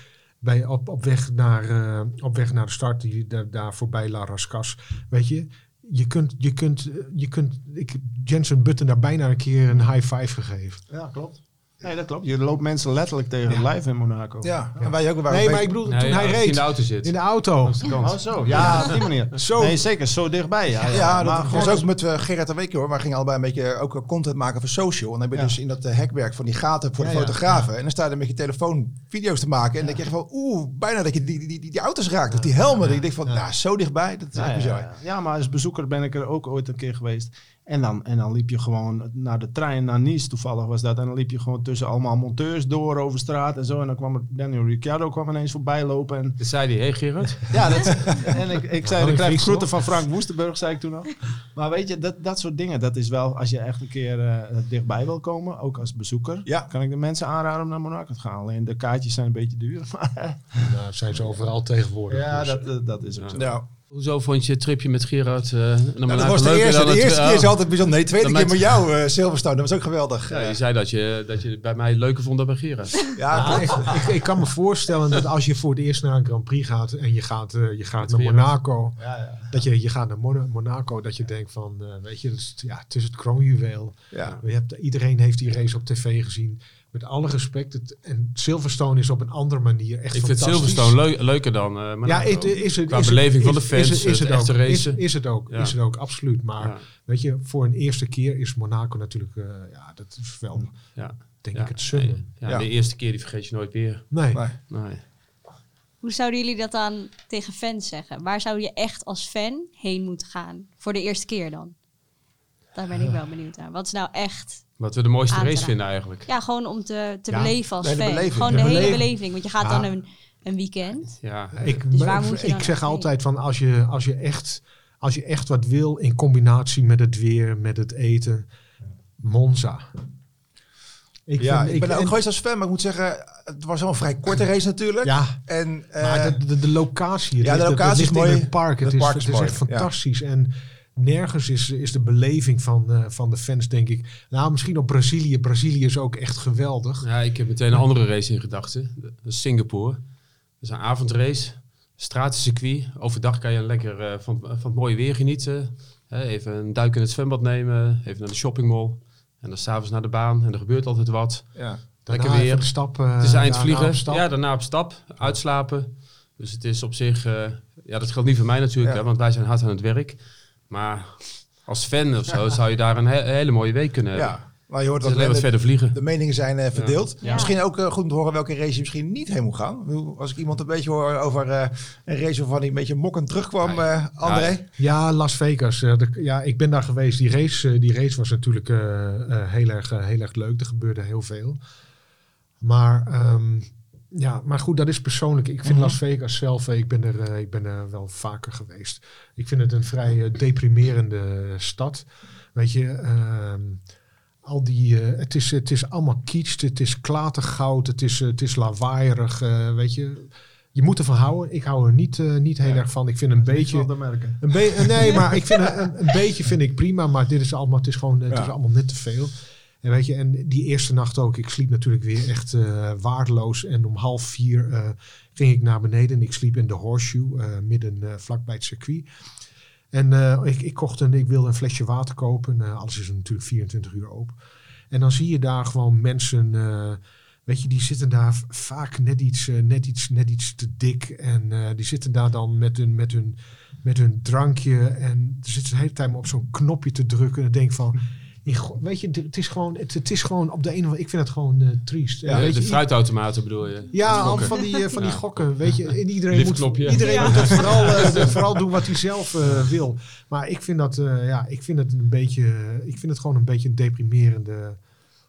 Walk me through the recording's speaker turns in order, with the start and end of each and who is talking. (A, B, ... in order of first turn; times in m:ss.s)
0:00.4-0:10.8 A
0:10.9-0:14.7 B
0:14.4-0:15.7 C
0:14.8-0:18.0 A
0:15.9-0:18.9 D
0:18.0-0:21.9 B
0:18.6-0:18.9 C
0:19.4-0:19.8 A
0:20.9-0:34.9 C
0:20.9-0:21.8 A
0:27.0-0:27.6 A
0:32.4-0:32.9 B
0:34.3-0:46.4 B
0:46.4-0:47.9 D
0:47.5-1:00.7 B
0:48.8-0:50.0 A
0:56.4-0:56.7 C
1:00.6-1:02.7 A
1:02.1-1:03.6 B
1:03.2-1:08.7 D
1:03.4-1:03.7 C
1:06.1-1:10.5 C
1:10.3-1:13.8 D
1:13.2-1:14.0 C
1:13.3-1:31.1 A
1:18.0-1:18.6 D
1:24.1-1:24.4 C
1:30.1-1:36.0 D
1:32.0-1:42.3 A
1:36.6-1:36.8 D
1:41.0-1:45.0 D
1:42.4-1:42.7 C
1:44.1-1:44.4 A
1:44.3-1:44.6 C
1:46.0-1:51.8 E
1:52.7-2:03.1 E
1:54.8-1:56.3 D
1:57.3-1:57.6 A
1:57.8-1:59.0 C
1:58.5-1:59.9 A
2:01.2-2:01.7 D
2:01.5-2:08.5 A
2:09.2-2:09.9 A
2:11.3-2:12.2 A
2:11.4-2:16.4 C
2:15.0-2:27.1 A
2:17.4-2:19.9 C
2:27.0-2:57.0 D
2:41.6-2:41.8 C
2:42.0-2:44.6 A
2:54.1-3:04.7 C
2:57.2-2:57.6 E
3:03.6-3:04.6 D
3:04.8-3:11.6 A
3:12.6-3:23.8 A
3:15.6-3:16.0 C
3:24.4-3:49.1 A
3:33.3-3:34.6 B
3:49.9-3:54.4 A
3:54.9-4:12.9 A
4:12.2-4:12.5 C
4:12.3-4:18.4 D
4:13.9-4:24.8 A
4:14.2-4:14.9 E
4:16.9-4:17.9 E